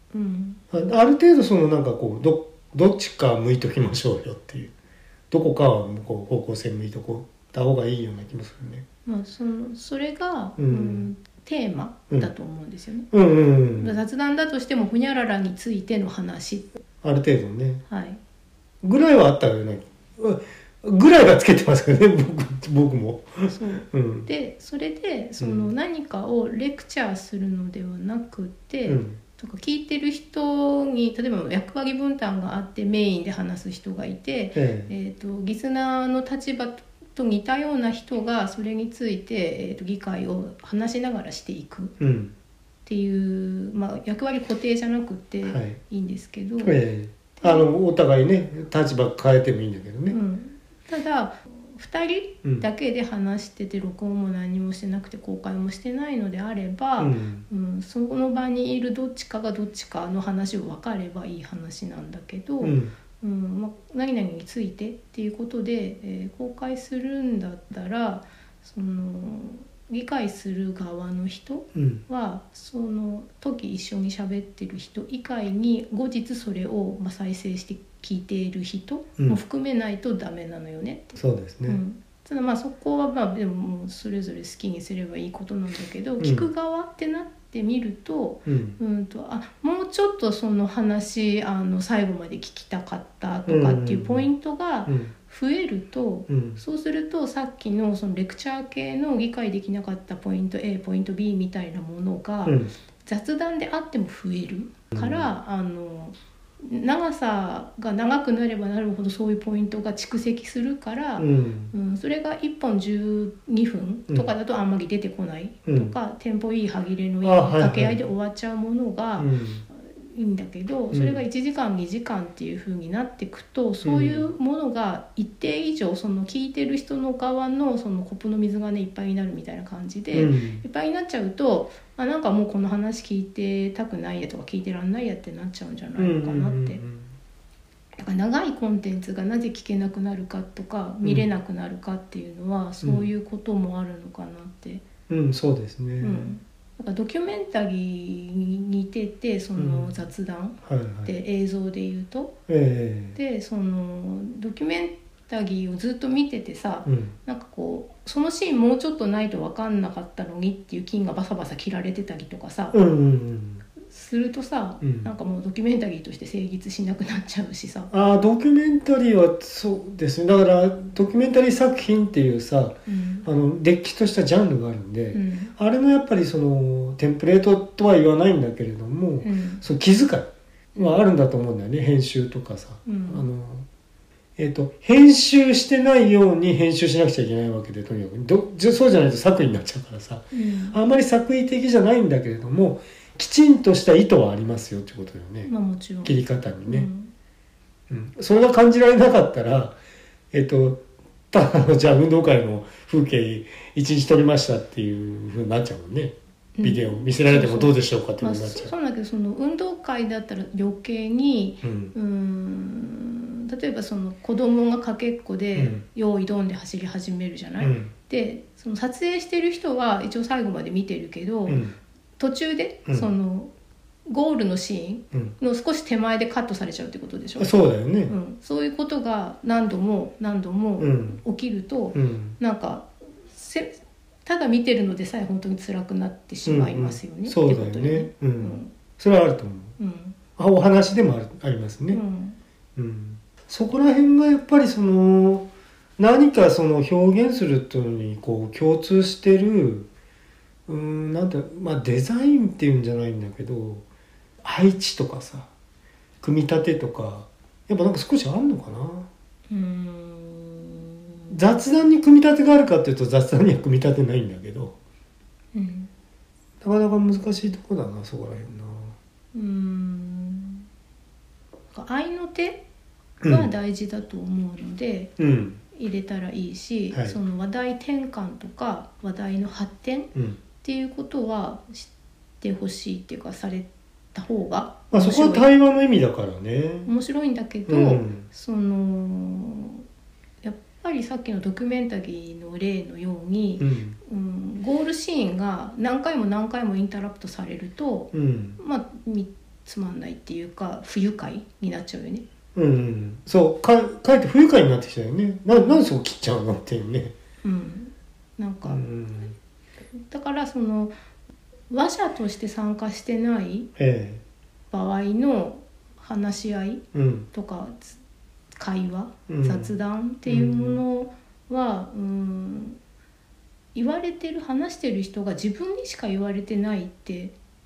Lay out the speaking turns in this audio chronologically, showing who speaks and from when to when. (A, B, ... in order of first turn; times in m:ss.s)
0:00.1-0:00.6 A
0:00.7-0:04.7 B
0:05.3-0:08.8 B
0:09.0-0:13.1 A
0:10.6-0:11.1 B
0:13.1-0:14.0 B
0:13.8-0:16.7 A
0:17.0-0:17.8 B
0:17.9-0:18.2 A
0:18.8-0:24.3 B
0:23.5-0:41.9 A
0:25.4-0:25.7 B
0:28.8-0:29.2 B
0:34.5-0:34.9 B
0:42.0-0:42.3 B
0:42.8-0:46.7 A
0:45.4-0:45.8 B
0:46.6-0:50.2 B
0:47.4-0:47.6 A
0:50.1-2:16.8 A
0:57.0-0:57.4 B
1:02.6-1:02.9 B
1:11.7-1:12.0 B
1:21.2-1:21.8 B
1:26.2-1:26.5 B
1:28.4-1:28.8 B
1:33.5-1:34.2 B
1:34.9-1:35.1 B
1:36.3-1:36.6 B
1:42.4-1:42.7 B
1:44.9-1:45.3 B
1:51.2-1:51.7 B
1:55.6-1:55.9 B
1:57.2-1:58.0 B
1:59.2-1:59.6 B
2:00.9-2:01.2 B
2:03.8-2:04.2 B
2:10.1-2:10.6 B
2:16.0-2:17.1 B
2:18.0-2:24.8 A
2:22.8-2:23.1 B
2:25.1-2:26.3 B
2:26.0-2:32.3 A
2:29.6-2:29.9 B
2:30.6-2:31.1 B
2:32.5-2:33.2 B
2:33.2-2:42.8 A
2:36.8-2:37.1 B
2:42.7-2:43.6 B
2:43.8-2:47.9 A
2:44.8-2:45.1 B
2:47.9-3:03.6 B
2:52.9-2:53.3 A
2:55.1-2:55.5 A
2:59.2-2:59.6 A
3:02.8-3:03.2 A
3:04.4-3:15.5 B
3:10.3-3:10.8 A
3:15.4-3:17.1 A
3:16.0-3:16.9 B
3:17.9-3:19.8 B
3:20.3-3:28.7 B
3:26.6-3:41.6 A
3:31.6-3:31.9 B
3:35.6-3:35.8 B
3:37.6-3:37.9 B
3:41.5-3:41.8 B
3:42.2-3:43.5 A
3:44.1-3:47.5 A
3:47.4-3:48.1 B
3:48.1-3:53.7 A
3:50.8-3:51.2 B
3:51.9-3:52.4 B
3:54.2-3:58.7 A
3:56.4-3:59.7 B
3:59.8-4:00.2 A
4:00.4-4:02.0 B
4:01.9-4:02.4 A
4:02.8-4:05.5 B
4:06.0-4:09.9 B
4:10.7-4:13.8 B
4:14.4-4:15.5 B
4:16.2-4:19.1 B
4:19.5-4:21.4 A
4:21.3-4:24.7 B
4:25.5-4:25.9 A
4:26.6-4:29.0 B
4:29.3-4:30.7 A
4:31.7-4:32.6 A
4:33.2-4:33.5 B
4:33.2-4:35.1 A
4:35.2-4:35.6 B
4:35.7-4:41.9 A
4:42.4-4:45.5 A
4:44.9-4:46.9 B
4:46.8-4:49.8 A
4:47.7-4:48.3 B
4:50.4-5:02.2 A
4:53.6-4:54.0 B
4:58.1-4:58.6 B
5:02.5-5:07.1 B
5:05.5-5:05.8 A
5:07.4-5:08.8 A
5:08.6-5:09.3 B
5:09.9-5:10.9 A
5:11.7-5:13.7 A
5:13.8-5:14.2 B
5:14.7-5:18.0 A
5:16.9-5:17.3 B
5:18.6-5:22.8 A
5:19.3-5:19.7 B
5:20.2-5:20.8 B
5:23.7-5:27.3 A